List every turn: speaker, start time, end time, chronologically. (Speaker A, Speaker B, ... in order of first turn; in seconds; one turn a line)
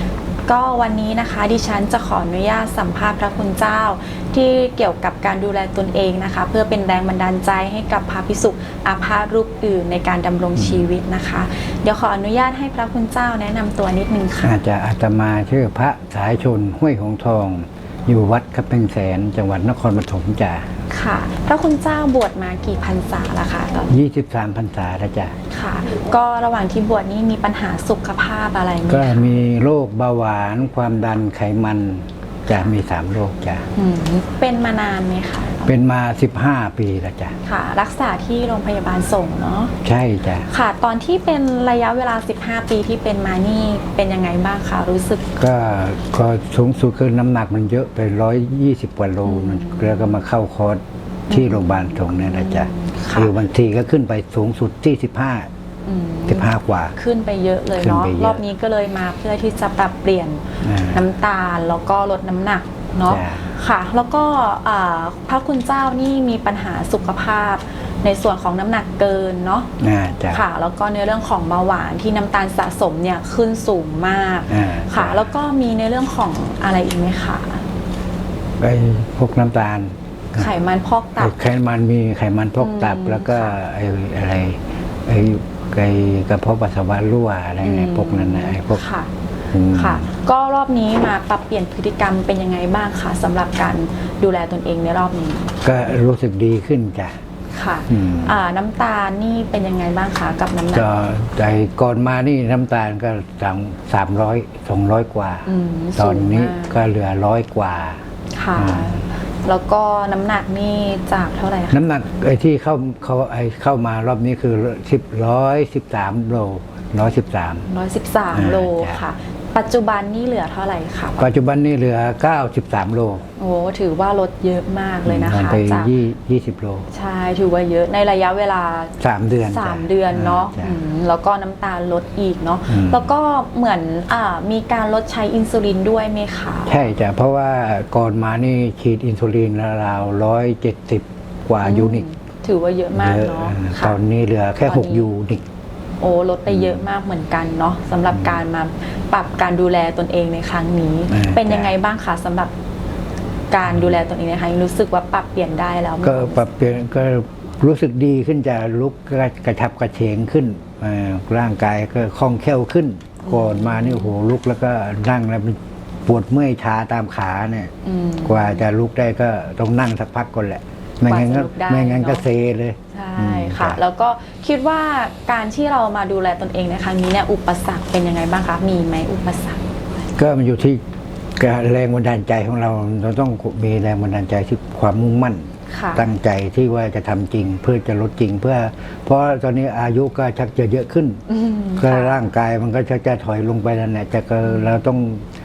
Speaker A: 0.5-14.5
Speaker B: 10.6-10.8
Speaker B: 14.4-20.7
Speaker A: 20.9-23.9
Speaker B: 23.9-25.4
Speaker A: 25.5-29.4
Speaker B: 28.9-33.6
Speaker A: 33.7-35.7
Speaker B: 35.6-37.4
Speaker A: 37.4-39.7
Speaker B: 39.8-40.5
Speaker A: 40.5-45.2
Speaker B: 45.4-55.5
Speaker A: 49.2-50.1
Speaker A: 51.3-53.3
Speaker A: 55.9-69.7
Speaker B: 56.3-56.9
Speaker B: 57.7-58.4
Speaker B: 60.6-61.0
Speaker B: 63.0-63.5
Speaker B: 69.8-70.5
Speaker A: 70.3-77.7
Speaker B: 74.5-75.3
Speaker B: 78.6-80.5
Speaker A: 80.3-81.3
Speaker B: 81.2-88.8
Speaker A: 82.6-83.5
Speaker A: 87.6-89.1
Speaker B: 89.5-90.1
Speaker A: 89.7-95.6
Speaker B: 95.6-97.2
Speaker A: 97.5-100.9
Speaker B: 97.9-98.3
Speaker B: 100.7-108.0
Speaker A: 105.5-106.8
Speaker A: 108.3-111.8
Speaker B: 108.5-109.0
Speaker B: 111.7-117.7
Speaker A: 117.7-121.2
Speaker B: 118.3-119.0
Speaker B: 121.2-123.2
Speaker A: 123.4-125.9
Speaker B: 125.0-126.9
Speaker A: 126.9-136.9
Speaker B: 129.0-130.8
Speaker B: 132.7-133.1
Speaker B: 136.7-142.0
Speaker A: 141.6-144.0
Speaker B: 142.9-145.4
Speaker A: 144.7-145.1
Speaker A: 146.0-152.5
Speaker B: 146.5-146.8
Speaker B: 151.1-151.7
Speaker A: 153.5-156.4
Speaker B: 156.0-173.8
Speaker A: 163.2-164.1
Speaker A: 167.8-168.6
Speaker A: 171.0-172.2
Speaker A: 172.9-179.7
Speaker B: 180.2-180.8
Speaker B: 181.4-191.2
Speaker A: 185.7-186.1
Speaker A: 191.3-192.2
Speaker B: 191.8-195.2